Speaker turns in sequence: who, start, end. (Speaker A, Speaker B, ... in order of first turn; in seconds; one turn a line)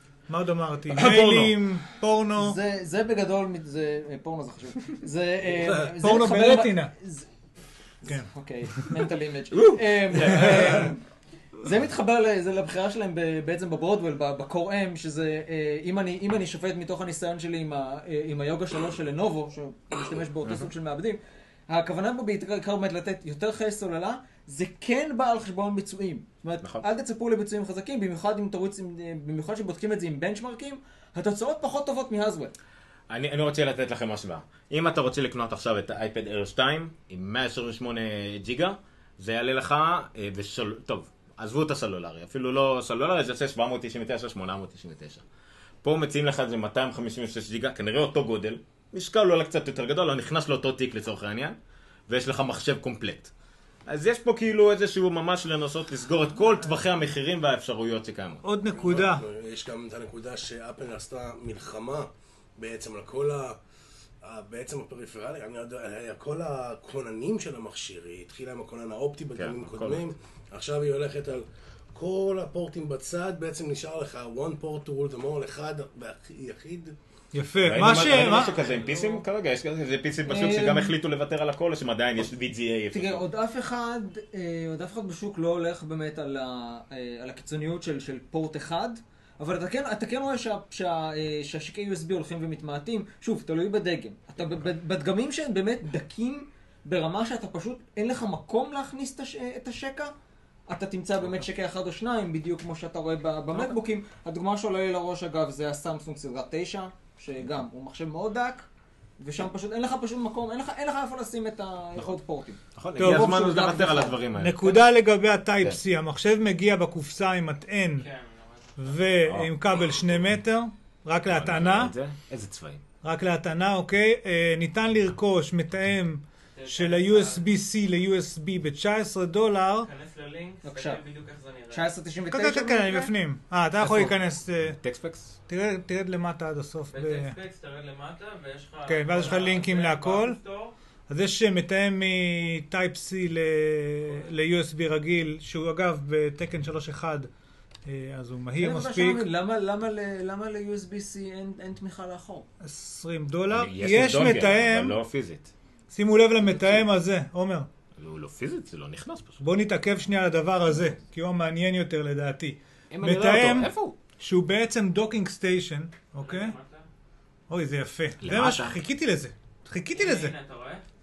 Speaker A: 0.3-2.6
Speaker B: 0.9-1.6
Speaker C: 2.4-7.3
Speaker A: 6.0-6.9
Speaker A: 8.1-8.9
Speaker C: 8.1-11.0
Speaker B: 9.5-10.9
Speaker A: 10.2-10.9
Speaker C: 11.6-32.5
Speaker B: 33.1-45.2
Speaker B: 45.8-51.6
Speaker B: 52.1-53.3
Speaker B: 53.9-58.4
Speaker A: 58.4-59.2
Speaker D: 58.7-63.6
Speaker D: 64.2-77.0
Speaker B: 69.4-70.0
Speaker A: 77.3-78.6
Speaker B: 77.6-83.2
Speaker C: 78.2-79.2
Speaker E: 78.4-79.0
Speaker C: 80.2-81.0
Speaker C: 82.9-100.1
Speaker C: 100.7-108.7
Speaker C: 109.2-114.2
Speaker B: 112.8-114.8
Speaker A: 113.0-113.4
Speaker A: 114.4-118.1
Speaker E: 118.0-119.1
Speaker A: 118.8-121.9
Speaker B: 119.3-119.5
Speaker B: 121.3-122.8
Speaker A: 123.0-129.9
Speaker E: 126.5-127.5
Speaker E: 129.8-131.9
Speaker C: 130.6-131.0
Speaker C: 131.7-133.1
Speaker A: 132.3-134.8
Speaker B: 133.8-134.1
Speaker B: 134.7-135.4
Speaker A: 135.5-137.4
Speaker E: 136.9-140.8
Speaker A: 138.9-140.4
Speaker A: 141.1-147.3
Speaker A: 147.9-149.3
Speaker C: 148.6-152.5
Speaker A: 152.6-155.0
Speaker B: 153.5-155.5
Speaker A: 155.9-157.7
Speaker B: 158.0-159.4
Speaker A: 159.4-166.6
Speaker B: 162.9-164.0
Speaker E: 166.2-166.9
Speaker A: 167.5-170.3
Speaker B: 168.2-168.8
Speaker E: 169.9-170.8